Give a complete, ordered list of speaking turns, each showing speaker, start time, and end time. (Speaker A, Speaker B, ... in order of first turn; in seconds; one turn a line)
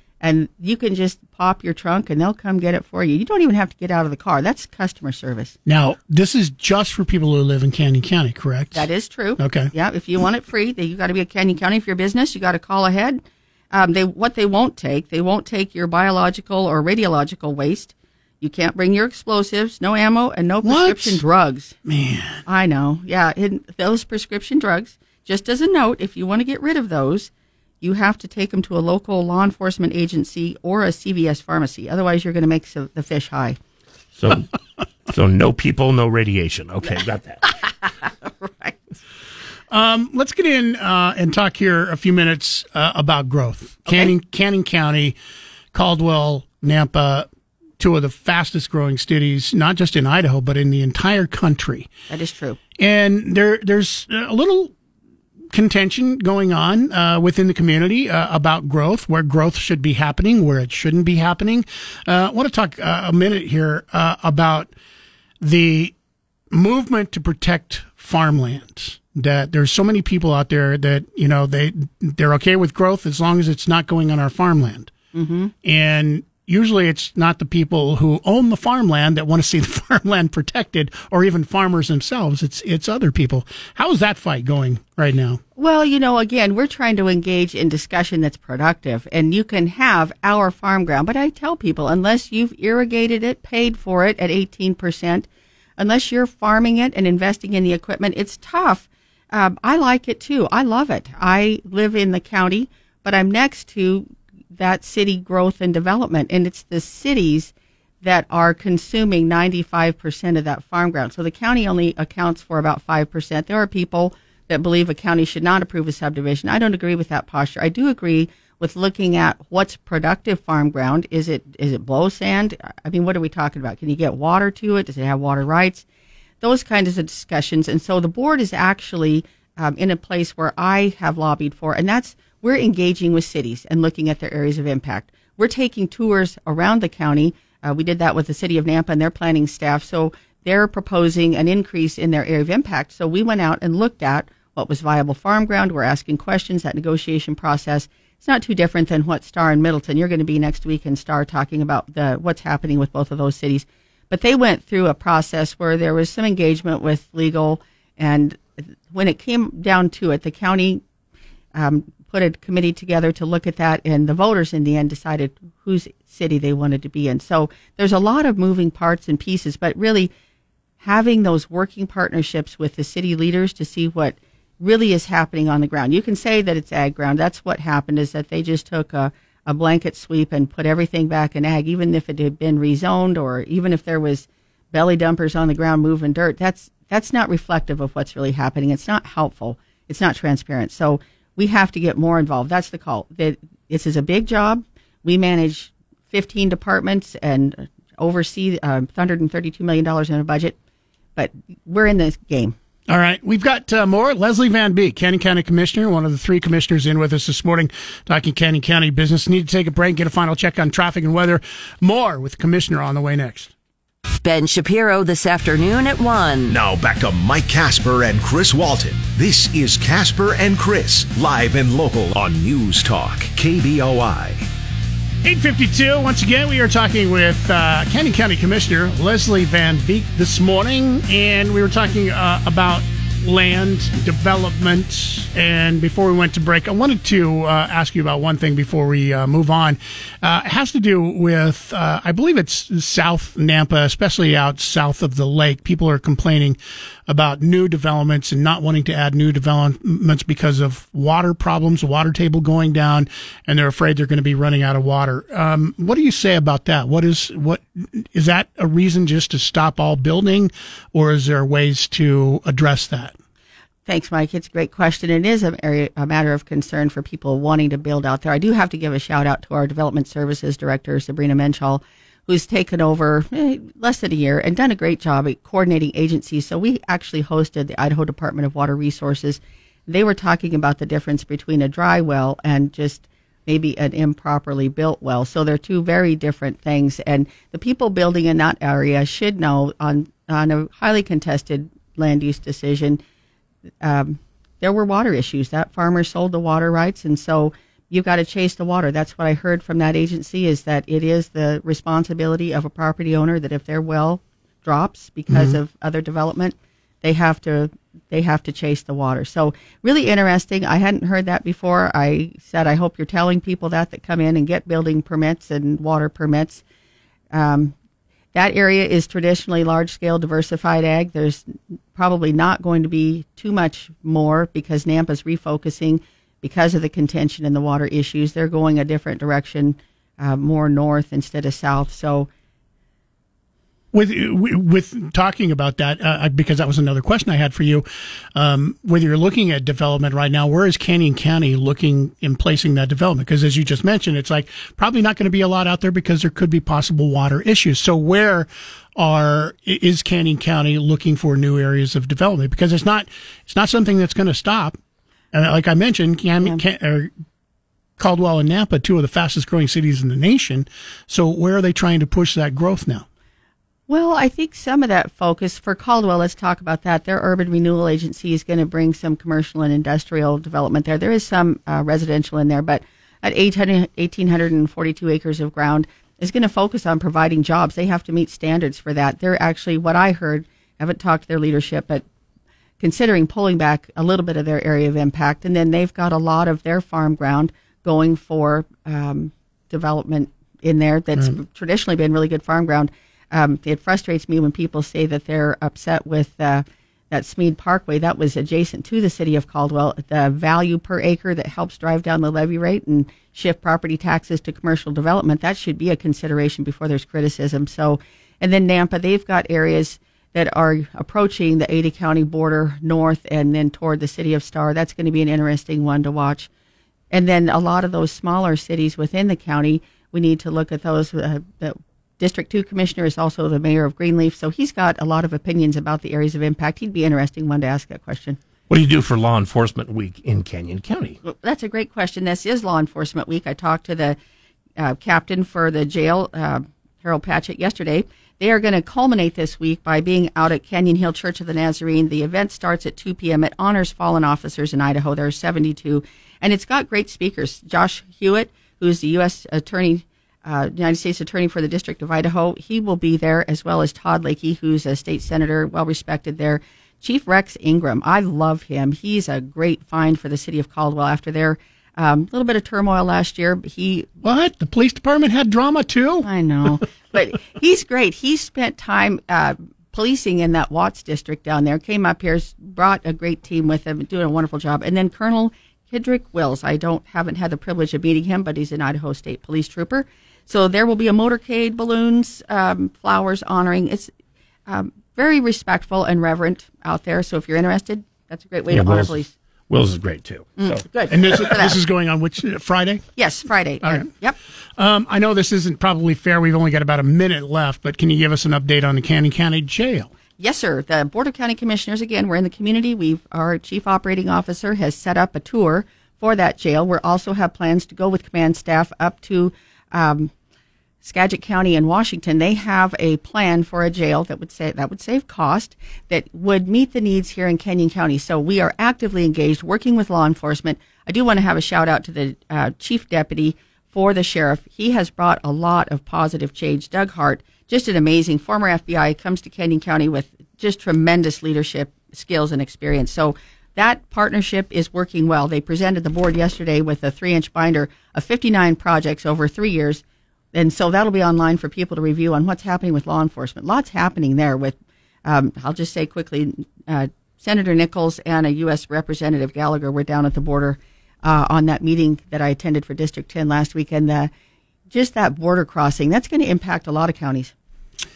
Speaker A: 0.2-5.5
Speaker B: 5.7-8.8
Speaker A: 8.7-21.8
Speaker B: 9.4-9.7
Speaker B: 20.6-21.2
Speaker B: 21.9-22.4
Speaker A: 22.5-33.6
Speaker C: 34.2-34.5
Speaker C: 35.1-37.4
Speaker A: 37.4-38.8
Speaker B: 39.7-45.2
Speaker B: 45.7-47.3
Speaker B: 47.8-51.9
Speaker A: 52.1-52.6
Speaker B: 52.8-54.7
Speaker B: 55.5-64.7
Speaker B: 65.4-65.9
Speaker B: 66.5-74.9
Speaker A: 75.1-75.5
Speaker B: 75.6-85.4
Speaker A: 85.6-95.3
Speaker A: 95.8-125.8
Speaker A: 126.4-160.8
Speaker A: 161.6-170.1
Speaker A: 170.8-200.6
Speaker A: 201.2-202.6
Speaker B: 202.9-213.5
Speaker D: 214.2-216.6
Speaker E: 216.5-224.5
Speaker B: 225.2-263.1
Speaker A: 263.9-293.0
Speaker A: 293.8-316.6
Speaker B: 305.3-305.6
Speaker A: 317.3-317.8
Speaker A: 318.3-332.3
Speaker B: 333.9-337.9
Speaker B: 338.4-354.8
Speaker B: 355.3-357.1
Speaker B: 358.0-363.1
Speaker A: 363.9-382.1
Speaker A: 382.8-416.5
Speaker A: 417.1-428.4
Speaker C: 428.7-431.2
Speaker A: 431.2-434.2
Speaker A: 434.8-464.1
Speaker B: 464.2-466.3
Speaker A: 466.2-484.1
Speaker A: 484.7-489.3
Speaker C: 488.7-489.2
Speaker C: 489.7-490.8
Speaker A: 490.6-491.8
Speaker B: 491.1-493.0
Speaker A: 493.2-494.4
Speaker B: 494.8-500.1
Speaker A: 500.4-510.3
Speaker A: 511.0-540.0
Speaker A: 540.5-554.3
Speaker A: 554.9-557.5